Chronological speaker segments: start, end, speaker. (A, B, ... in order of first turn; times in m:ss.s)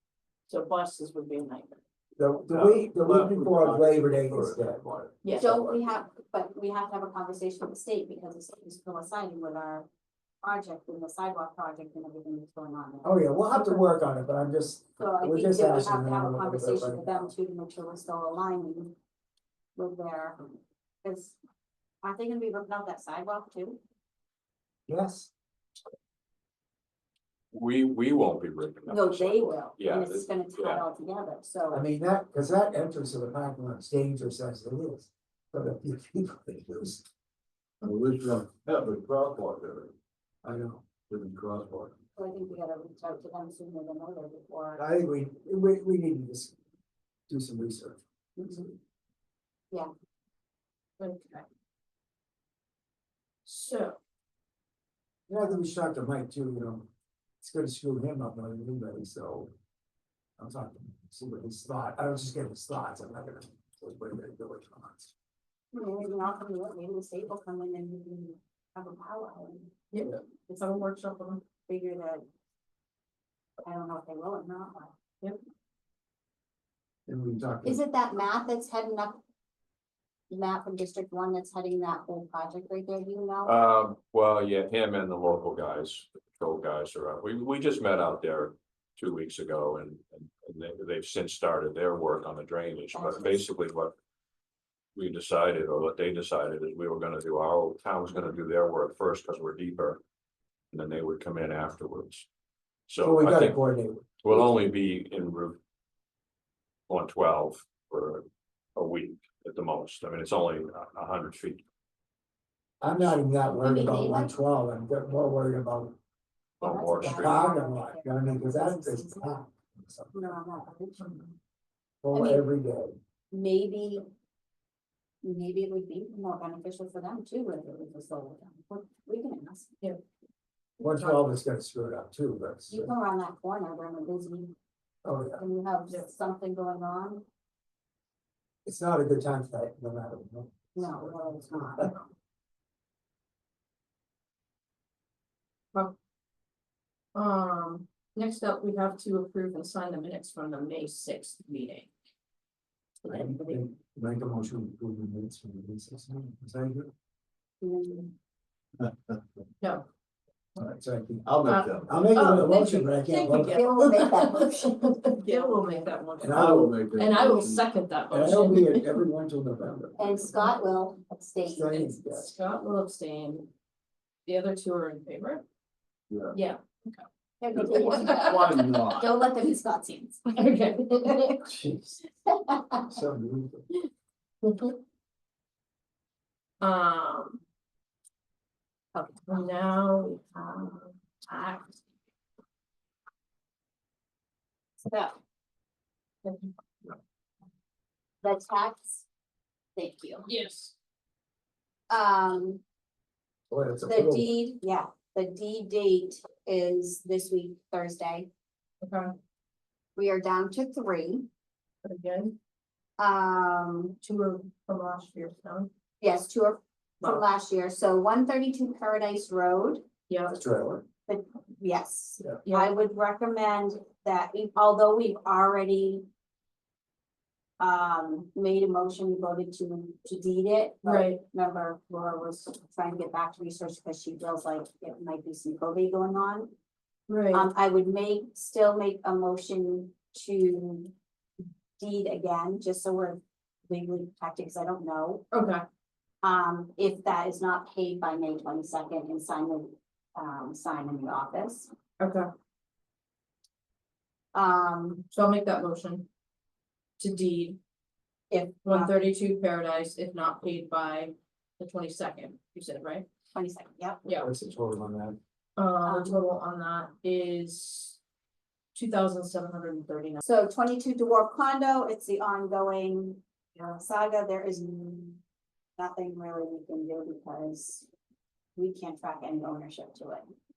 0:00.5-0:01.8 A
0:02.2-0:04.9 B
0:02.5-0:05.7 C
0:05.2-0:05.5 A
0:05.4-0:09.9 D
0:10.4-0:13.9 D
0:13.0-0:17.2 B
0:15.0-0:18.9 D
0:19.8-0:21.4 D
0:22.0-0:23.8 D
0:24.9-0:25.3 B
0:27.5-0:30.8 E
0:28.9-0:31.9 D
0:31.7-0:37.0 B
0:37.8-0:39.9 C
0:40.4-0:41.1 B
0:41.1-0:41.9 C
0:42.1-0:44.8 D
0:44.8-0:46.6 B
0:47.3-0:48.0 B
0:48.4-0:48.7 D
0:51.0-0:51.4 A
0:53.4-0:54.0 A
0:55.3-0:56.9 B
0:57.4-0:59.5 B
1:00.4-1:05.1 B
1:05.7-1:09.7 D
1:09.9-1:11.4 A
1:11.7-1:12.2 D
1:13.6-1:14.9 D
1:17.1-1:17.8 B
1:17.6-1:19.2 D
1:20.3-1:23.6 D
1:23.4-1:33.9 E
1:32.9-1:33.4 D
1:34.9-1:40.0 E
1:40.7-1:42.3 E
1:42.9-1:43.6 E
1:43.0-1:44.5 B
1:44.2-1:45.6 E
1:46.9-1:51.6 E
1:52.8-1:56.0 B
1:53.6-1:54.3 D
1:56.6-1:57.5 E
1:56.6-1:59.3 D
1:57.0-2:00.3 B
2:00.1-2:01.2 D
2:01.0-2:01.3 A
2:02.0-2:03.0 B
2:02.1-2:02.5 D
2:03.3-2:04.0 D
2:05.2-2:09.7 D
2:10.8-2:11.3 A
2:10.8-2:12.9 B
2:12.7-2:14.5 D
2:15.0-2:15.4 B
2:15.4-2:17.2 D
2:18.6-2:21.9 B
2:20.7-2:21.9 D
2:27.1-2:31.9 A
2:33.0-2:33.6 A
2:33.1-2:36.9 B
2:37.6-2:38.1 D
2:39.6-2:39.9 A
2:40.6-2:44.1 B
2:41.2-2:42.2 C
2:41.4-2:49.0 A
2:43.3-2:45.9 D
2:46.2-2:46.9 B
2:46.2-2:47.6 C
2:48.1-2:50.3 B
2:50.0-2:51.7 D
2:51.4-2:52.3 B
2:51.6-2:53.5 A
2:54.2-2:55.4 A
2:56.1-2:56.4 C
2:56.3-2:57.0 A
2:57.4-3:01.5 D
2:57.6-2:59.1 C
2:57.8-2:58.8 A
3:00.3-3:01.4 A
3:01.5-3:02.0 B
3:02.3-3:02.9 D
3:02.9-3:03.7 B
3:04.4-3:04.8 A
3:06.6-3:07.4 A
3:08.9-3:09.3 D
3:09.2-3:11.8 A
3:14.8-3:15.2 D
3:16.2-3:16.5 A
3:18.2-3:19.0 D
3:19.8-3:20.3 D
3:20.2-3:20.7 A
3:21.9-3:22.6 D
3:23.5-3:24.3 B
3:23.8-3:28.3 D
3:28.8-3:29.2 A
3:30.0-3:31.3 D
3:31.8-3:32.4 A
3:33.0-3:34.0 D
3:34.0-3:35.7 A
3:36.0-3:39.8 D
3:40.1-3:40.4 A
3:40.3-3:40.8 B
3:41.1-3:46.0 D
3:42.4-3:42.8 A
3:47.6-3:56.5 D
3:50.8-3:51.2 A
3:57.1-3:57.5 A
3:57.3-4:00.9 D
4:01.8-4:05.3 D
4:05.3-4:05.6 A
4:06.2-4:11.7 D
4:12.0-4:12.3 A
4:14.3-4:15.0 D
4:15.1-4:16.1 A
4:17.0-4:17.6 A
4:18.3-4:19.0 D
4:18.6-4:23.1 A
4:23.3-4:24.0 D
4:24.0-4:24.3 A
4:24.2-4:25.2 B
4:25.6-4:28.0 A
4:25.8-4:26.2 D
4:28.7-4:30.2 A
4:30.2-4:35.2 D
4:35.8-4:37.9 D
4:38.6-4:40.2 D